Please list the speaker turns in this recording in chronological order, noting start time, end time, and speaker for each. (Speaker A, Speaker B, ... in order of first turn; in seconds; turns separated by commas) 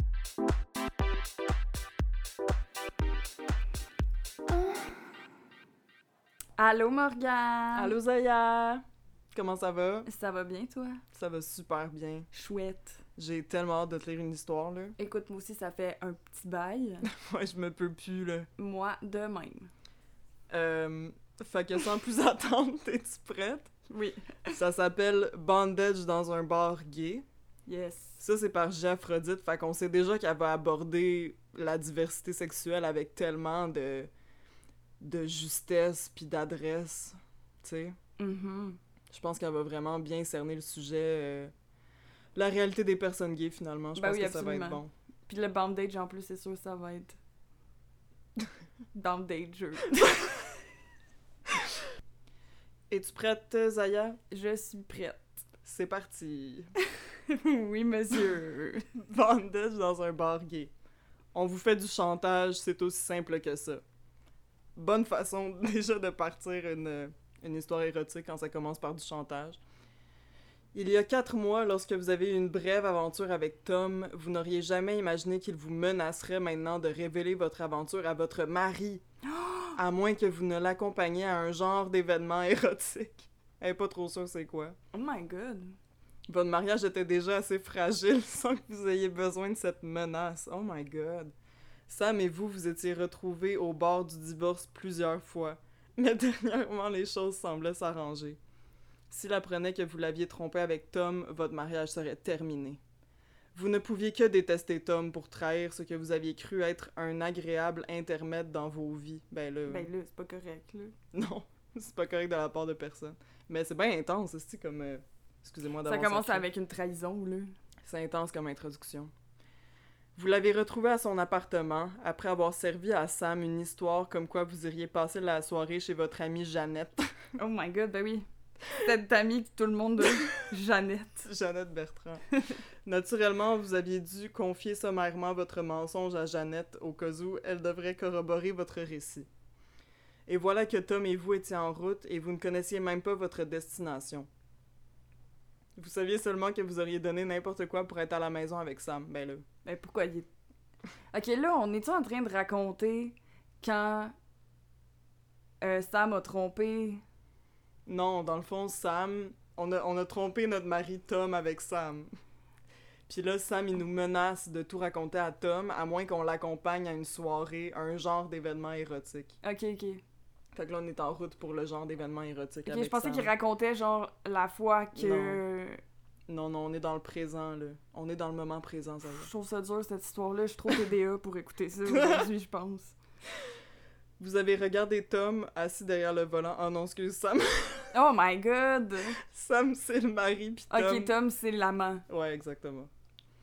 Speaker A: 6.6-8.0, Speaker B: 7.7-10.1, Speaker A: 10.1-11.0, Speaker B: 11.1-12.3, Speaker A: 12.3-13.0, Speaker B: 13.2-14.9, Speaker A: 15.0-17.1, Speaker B: 17.1-18.5, Speaker A: 18.6-19.7, Speaker B: 20.5-23.7, Speaker A: 23.9-24.6, Speaker B: 24.5-27.2, Speaker A: 27.7-28.2, Speaker B: 28.2-34.1, Speaker B: 35.0-38.0, Speaker A: 38.2-38.8, Speaker B: 39.1-41.5, Speaker B: 42.3-44.9, Speaker A: 44.0-47.2, Speaker A: 48.9-50.5, Speaker B: 52.9-54.2, Speaker A: 54.3-55.4, Speaker B: 55.6-56.7, Speaker A: 57.3-58.9, Speaker B: 58.9-60.7, Speaker B: 61.3-63.8, Speaker B: 64.8-69.6, Speaker B: 70.7-79.0, Speaker A: 79.2-79.8, Speaker B: 79.8-84.8, Speaker A: 84.9-85.8, Speaker B: 86.3-91.3, Speaker B: 91.9-98.4, Speaker B: 99.1-102.8, Speaker B: 103.5-109.9, Speaker A: 109.7-110.9, Speaker B: 111.1-116.5, Speaker A: 115.8-117.5, Speaker B: 117.8-119.1, Speaker B: 120.2-127.1, Speaker A: 127.4-131.3, Speaker B: 131.2-132.2, Speaker B: 132.8-139.3, Speaker B: 140.3-144.3, Speaker B: 145.8-149.4, Speaker A: 149.6-150.3, Speaker A: 151.1-154.1, Speaker A: 155.6-157.0, Speaker B: 157.8-162.1, Speaker B: 163.1-169.3, Speaker A: 169.4-170.0, Speaker B: 170.5-173.3, Speaker A: 172.7-175.8, Speaker B: 174.9-175.4, Speaker B: 176.3-179.3, Speaker A: 179.1-182.9, Speaker B: 181.9-182.3, Speaker B: 184.2-187.9, Speaker A: 187.9-189.2, Speaker B: 189.2-191.1, Speaker A: 190.7-192.0, Speaker B: 192.1-192.9